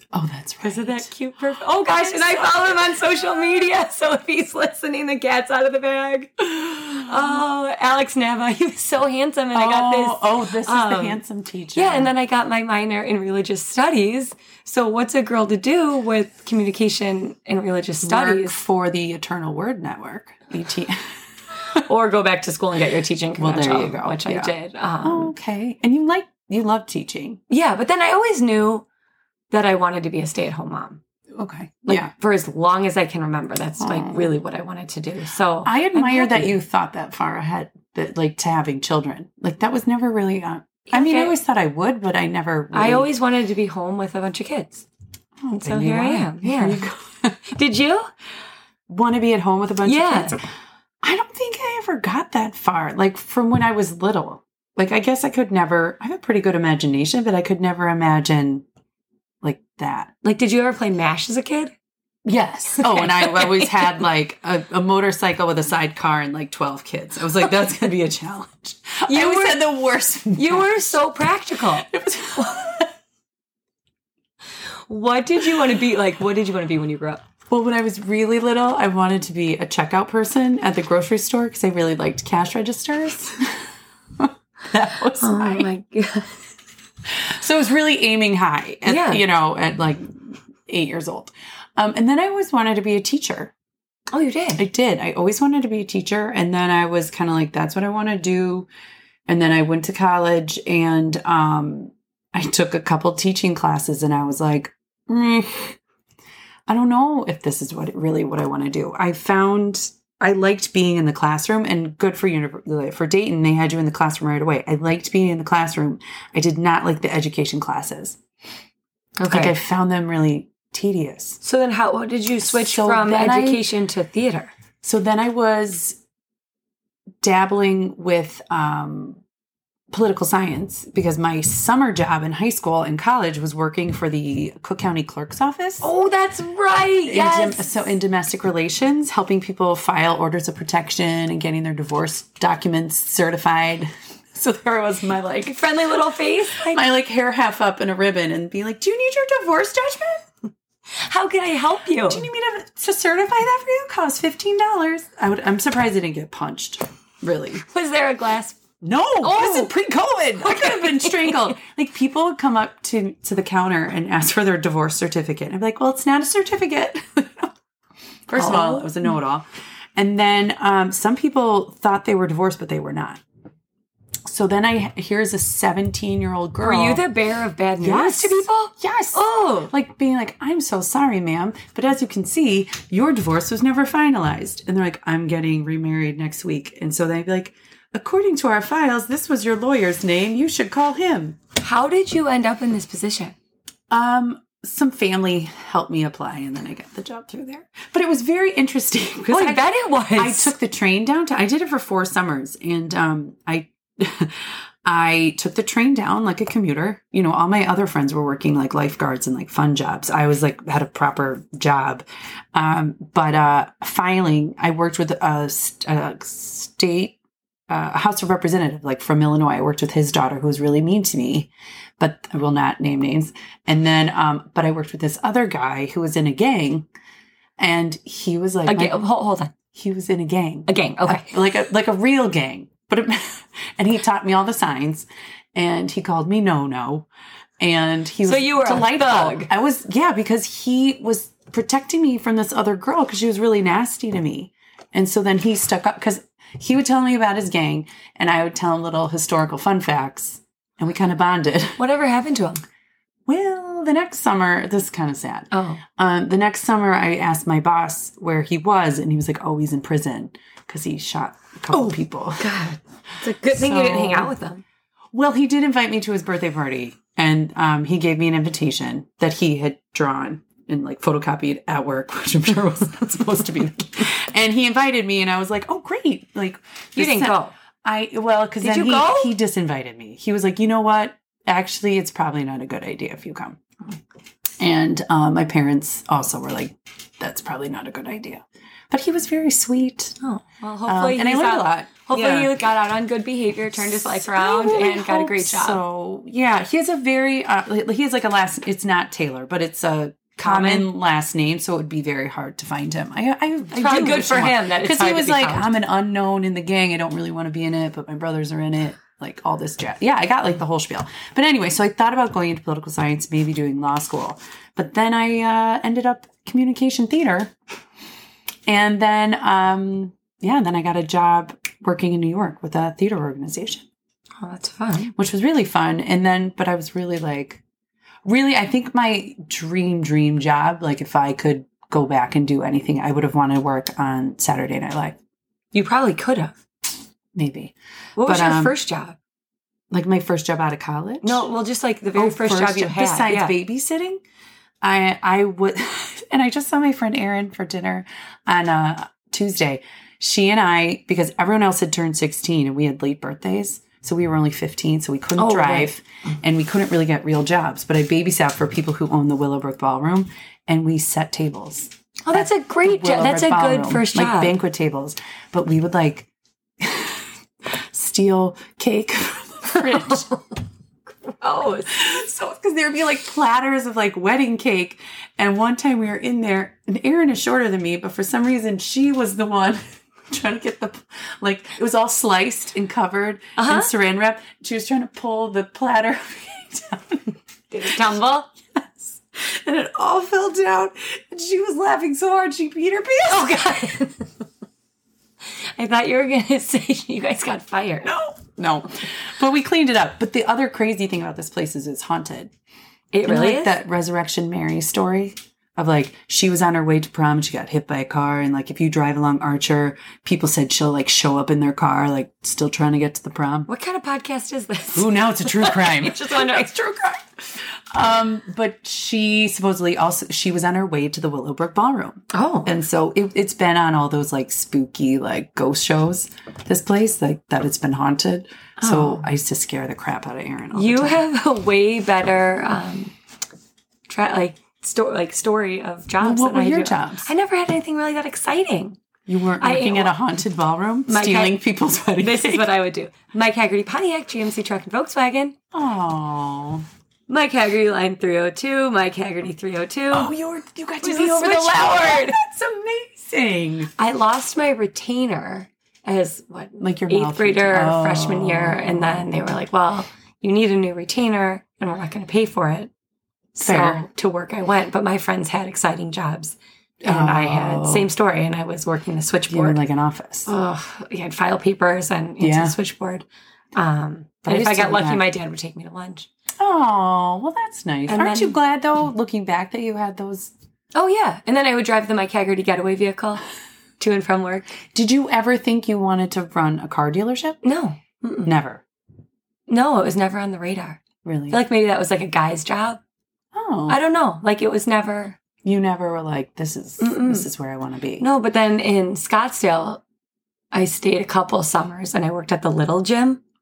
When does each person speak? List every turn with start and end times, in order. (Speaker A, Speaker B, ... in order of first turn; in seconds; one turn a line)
Speaker A: 0.1-1.1
Speaker B: 0.6-11.2
Speaker A: 1.9-2.8
Speaker A: 9.5-12.1
Speaker B: 11.7-18.6
Speaker A: 18.0-21.1
Speaker B: 21.7-25.3
Speaker A: 23.4-24.5
Speaker A: 25.0-27.4
Speaker B: 27.5-28.8
Speaker B: 29.5-31.0
Speaker A: 31.3-32.1
Speaker B: 31.9-36.6
Speaker A: 33.8-34.3
Speaker A: 35.6-43.1
Speaker B: 40.9-41.4
Speaker B: 42.7-44.9
Speaker A: 45.4-47.4
Speaker B: 45.6-46.9
Speaker B: 47.5-48.1
Speaker A: 48.9-50.4
Speaker B: 49.8-50.4
Speaker A: 51.0-58.6
Speaker A: 59.4-60.1
Speaker B: 60.2-61.7
Speaker A: 62.2-70.9
Speaker B: 62.8-64.0
Speaker B: 69.1-69.6
Speaker B: 70.3-71.9
Speaker A: 71.7-72.9
Speaker B: 74.9-77.2
Speaker A: 77.5-83.5
Speaker A: 84.2-85.7
Speaker B: 85.2-86.4
Speaker A: 87.1-93.5
Speaker B: 88.8-89.2
Speaker B: 94.1-94.6
Speaker A: 94.5-98.7
Speaker A: 99.3-105.8
Speaker A: 106.7-118.2
Speaker B: 119.2-119.5
Speaker A: 119.3-121.4
Speaker B: 121.4-124.5
Speaker A: 122.4-123.6
Speaker A: 124.8-126.0
Speaker A: 127.2-129.2
Speaker A: 129.9-135.9
Speaker B: 135.8-137.8
Speaker A: 137.0-145.6
Speaker B: 145.5-146.8
Speaker A: 146.6-150.3
Speaker B: 150.9-152.2
Speaker A: 152.1-157.6
Speaker B: 157.6-158.6
Speaker A: 158.8-167.5
Speaker B: 159.2-159.7
Speaker B: 160.4-161.6
Speaker A: 168.3-173.2
Speaker B: 168.3-169.1
Speaker A: 174.2-177.0
Speaker B: 176.6-179.7
Speaker A: 177.8-191.4
Speaker B: 191.6-193.3
Speaker A: 193.9-217.2
Speaker B: 199.3-200.5
Speaker A: 217.7-226.9
Speaker A: 227.6-229.0
Speaker B: 228.7-229.5
Speaker A: 229.7-237.1
Speaker B: 230.7-231.3
Speaker A: 237.6-251.8
Speaker B: 238.2-239.5
Speaker B: 251.8-252.6
Speaker A: 253.3-262.5
Speaker B: 255.5-255.8
Speaker B: 261.7-264.6
Speaker A: 263.4-264.3
Speaker A: 265.1-283.9
Speaker B: 277.0-277.5
Speaker B: 278.6-279.3
Speaker A: 284.6-290.2
Speaker B: 290.2-295.8
Speaker A: 290.9-292.5
Speaker A: 293.9-317.5
Speaker B: 300.4-300.9
Speaker B: 303.7-305.7
Speaker A: 318.6-323.8
Speaker B: 324.4-325.1
Speaker A: 325.1-327.6
Speaker A: 328.2-335.2
Speaker B: 335.7-336.6
Speaker A: 337.3-338.8
Speaker B: 338.2-339.1
Speaker A: 339.9-341.4
Speaker B: 341.2-343.6
Speaker A: 342.1-344.2
Speaker A: 344.8-366.3
Speaker B: 355.4-355.9
Speaker B: 362.2-364.6
Speaker A: 366.8-370.3
Speaker B: 369.7-370.6
Speaker B: 371.1-372.0
Speaker A: 371.9-387.3
Speaker B: 383.6-383.9
Speaker B: 387.7-388.5
Speaker A: 387.9-388.2
Speaker A: 388.7-393.7
Speaker B: 393.3-394.3
Speaker B: 395.8-398.1
Speaker A: 398.0-402.5
Speaker B: 403.1-403.8
Speaker A: 403.2-413.7
Speaker B: 413.7-417.2
Speaker A: 414.9-416.9
Speaker A: 417.9-431.2
Speaker B: 422.3-422.8
Speaker B: 428.8-429.3
Speaker B: 430.7-433.1
Speaker B: 434.1-439.0
Speaker A: 436.2-437.3
Speaker A: 439.3-442.7
Speaker B: 439.6-440.1
Speaker B: 441.1-441.6
Speaker B: 442.2-445.6
Speaker A: 445.7-446.8
Speaker B: 447.3-450.3
Speaker A: 450.1-453.9
Speaker B: 451.0-452.4
Speaker B: 453.9-462.9
Speaker A: 456.8-459.3
Speaker B: 463.6-469.8
Speaker A: 463.6-464.0
Speaker A: 467.0-468.1
Speaker A: 469.5-470.5
Speaker B: 470.4-476.3
Speaker A: 472.4-472.8
Speaker A: 474.4-475.2
Speaker A: 476.6-480.5
Speaker B: 478.1-478.6
Speaker B: 480.9-483.4
Speaker B: 484.0-484.7
Speaker A: 484.9-487.6
Speaker B: 487.6-488.5
Speaker A: 488.4-488.8
Speaker B: 489.7-493.0
Speaker A: 491.2-491.6
Speaker A: 493.5-494.0
Speaker B: 493.9-495.4
Speaker A: 495.6-498.2
Speaker B: 497.0-497.5
Speaker B: 498.2-500.0
Speaker B: 500.7-503.4